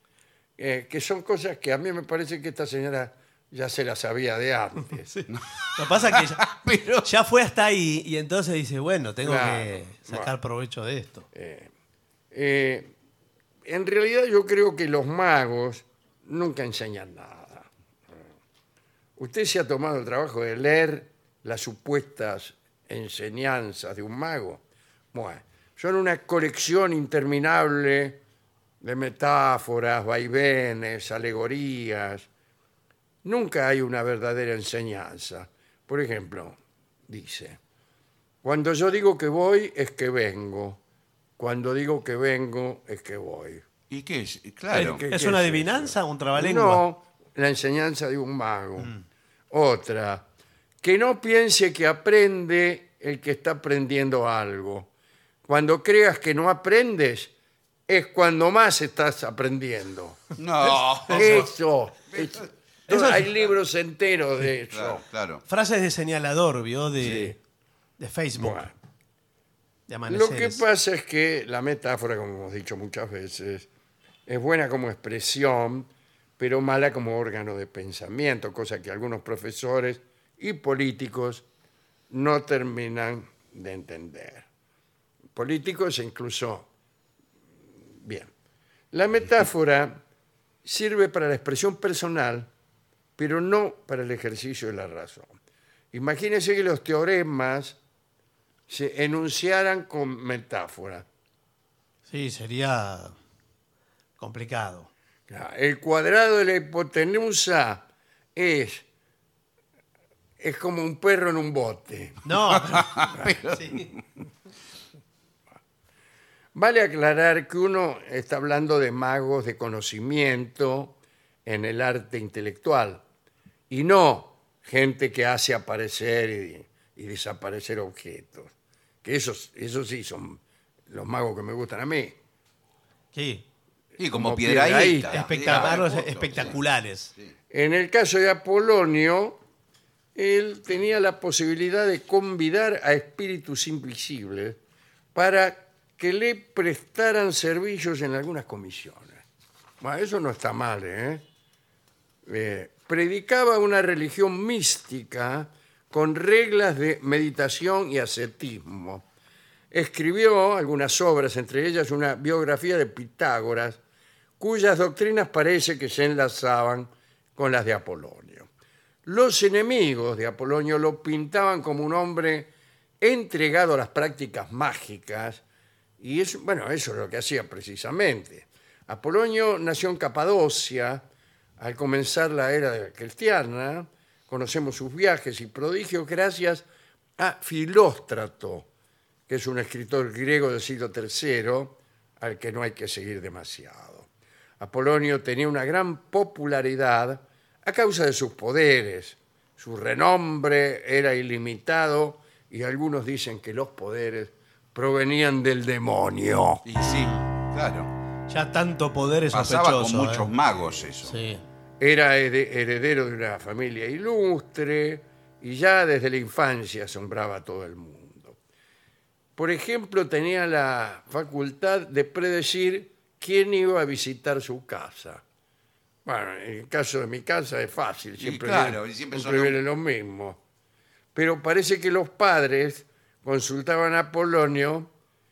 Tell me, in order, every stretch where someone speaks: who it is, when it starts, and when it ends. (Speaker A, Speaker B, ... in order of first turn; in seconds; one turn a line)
Speaker A: 0.6-5.1
Speaker B: 5.1-6.5
Speaker C: 5.3-7.1
Speaker B: 7.0-11.3
Speaker A: 9.2-10.3
Speaker A: 11.3-11.7
Speaker A: 12.3-12.9
Speaker A: 13.6-18.3
Speaker A: 19.2-28.2
Speaker A: 28.8-32.3
Speaker A: 33.2-37.6
Speaker A: 38.4-40.8
Speaker A: 41.4-43.6
Speaker C: 43.9-45.0
Speaker A: 44.7-48.9
Speaker B: 44.7-46.8
Speaker A: 49.5-50.2
Speaker A: 50.8-54.9
Speaker A: 55.4-57.3
Speaker A: 57.9-65.0
Speaker C: 60.4-61.5
Speaker C: 62.1-62.5
Speaker B: 62.9-63.3
Speaker C: 64.7-65.4
Speaker B: 65.5-67.4
Speaker A: 67.0-67.3
Speaker B: 68.0-68.7
Speaker A: 68.3-68.7
Speaker B: 69.9-70.6
Speaker A: 70.1-73.7
Speaker A: 74.3-81.4
Speaker A: 82.1-84.5
Speaker A: 85.3-86.7
Speaker A: 88.0-88.3
Speaker A: 88.9-90.0
Speaker A: 90.6-92.5
Speaker A: 93.2-95.3
Speaker A: 95.9-97.8
Speaker A: 98.7-101.0
Speaker B: 102.1-103.2
Speaker B: 104.2-104.9
Speaker A: 105.3-108.8
Speaker A: 110.4-112.3
Speaker B: 112.2-113.9
Speaker C: 112.8-113.8
Speaker A: 116.5-123.0
Speaker A: 123.7-128.5
Speaker A: 129.0-132.2
Speaker B: 133.1-133.4
Speaker C: 134.0-136.6
Speaker A: 134.1-135.8
Speaker B: 135.1-137.1
Speaker A: 137.5-139.4
Speaker A: 140.1-144.6
Speaker A: 145.1-149.2
Speaker A: 149.8-151.2
Speaker A: 152.2-159.1
Speaker A: 159.7-163.8
Speaker A: 164.4-168.5
Speaker A: 169.0-175.4
Speaker A: 176.0-181.1
Speaker A: 181.6-186.6
Speaker A: 187.2-188.7
Speaker A: 189.3-206.6
Speaker C: 206.7-207.9
Speaker B: 206.8-207.2
Speaker B: 208.3-210.3
Speaker C: 209.3-211.2
Speaker B: 211.0-211.4
Speaker A: 211.8-218.4
Speaker A: 219.3-225.2
Speaker A: 226.0-230.4
Speaker C: 228.2-229.6
Speaker A: 231.1-234.9